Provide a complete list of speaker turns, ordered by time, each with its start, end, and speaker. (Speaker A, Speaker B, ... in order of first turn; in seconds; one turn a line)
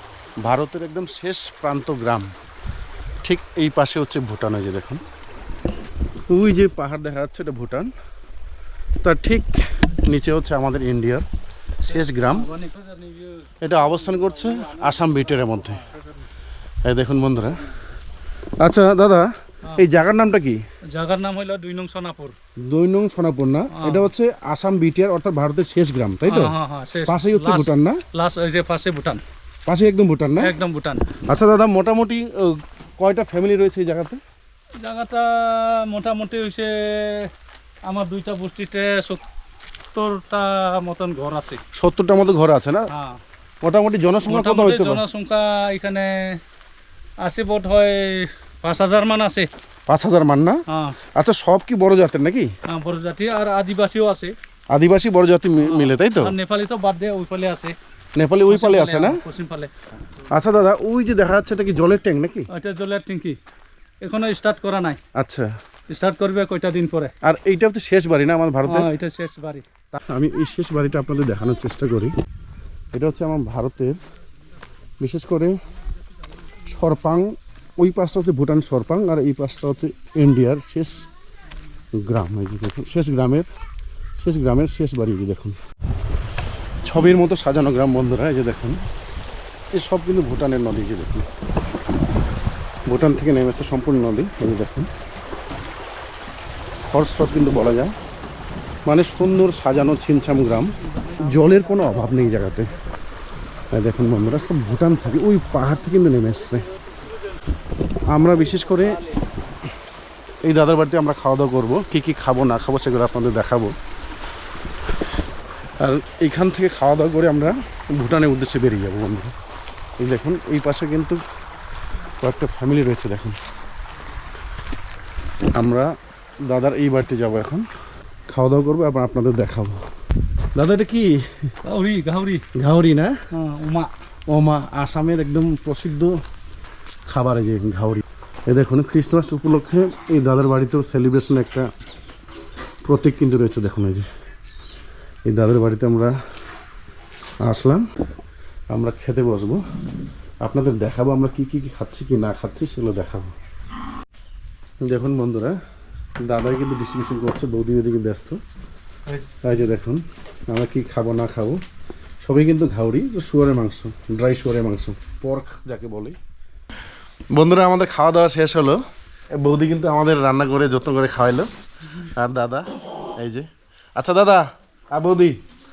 Speaker A: 0.4-2.3
Speaker A: 3.2-5.0
Speaker A: 6.3-7.9
Speaker A: 9.0-11.2
Speaker A: 11.8-12.5
Speaker B: 11.8-13.5
Speaker A: 13.6-15.9
Speaker A: 16.8-17.6
Speaker A: 18.6-20.6
Speaker B: 19.6-19.9
Speaker B: 20.9-22.3
Speaker A: 22.6-26.5
Speaker B: 23.7-24.1
Speaker B: 26.2-29.2
Speaker A: 27.1-28.0
Speaker A: 29.7-30.5
Speaker B: 30.4-31.1
Speaker A: 31.1-34.2
Speaker B: 34.8-37.3
Speaker B: 37.9-39.2
Speaker B: 39.9-41.6
Speaker A: 41.7-42.9
Speaker B: 42.9-43.2
Speaker A: 43.6-45.0
Speaker B: 44.2-46.4
Speaker B: 47.2-49.5
Speaker A: 49.9-50.6
Speaker B: 50.7-51.0
Speaker A: 51.1-52.5
Speaker B: 52.7-54.3
Speaker A: 54.7-56.3
Speaker B: 55.6-57.8
Speaker A: 58.1-59.2
Speaker B: 58.5-59.7
Speaker A: 60.3-62.5
Speaker B: 62.5-63.4
Speaker B: 64.0-65.0
Speaker A: 65.1-65.5
Speaker B: 65.9-67.1
Speaker A: 67.2-68.9
Speaker B: 68.6-69.6
Speaker A: 69.9-72.1
Speaker A: 72.9-74.0
Speaker A: 75.0-75.5
Speaker A: 76.7-81.0
Speaker A: 81.9-83.5
Speaker A: 84.2-85.6
Speaker A: 86.8-88.8
Speaker A: 89.7-91.3
Speaker A: 92.9-94.9
Speaker A: 96.8-97.9
Speaker A: 98.8-102.7
Speaker B: 100.8-102.7
Speaker A: 103.7-106.7
Speaker A: 108.1-109.0
Speaker A: 110.4-113.7
Speaker A: 115.8-119.3
Speaker A: 120.0-121.2
Speaker A: 122.2-123.4
Speaker A: 125.5-125.9
Speaker A: 126.5-127.7
Speaker A: 128.3-129.8
Speaker A: 130.5-131.5
Speaker B: 131.6-132.4
Speaker A: 132.5-133.2
Speaker B: 133.3-133.9
Speaker A: 134.3-136.2
Speaker A: 137.1-141.7
Speaker A: 142.8-144.1
Speaker A: 145.3-146.1
Speaker A: 147.4-147.8
Speaker A: 148.7-149.6
Speaker A: 150.4-153.3
Speaker A: 154.8-155.6
Speaker A: 156.2-158.4
Speaker A: 159.4-161.6
Speaker A: 162.2-166.2
Speaker A: 167.3-168.8
Speaker A: 169.3-175.4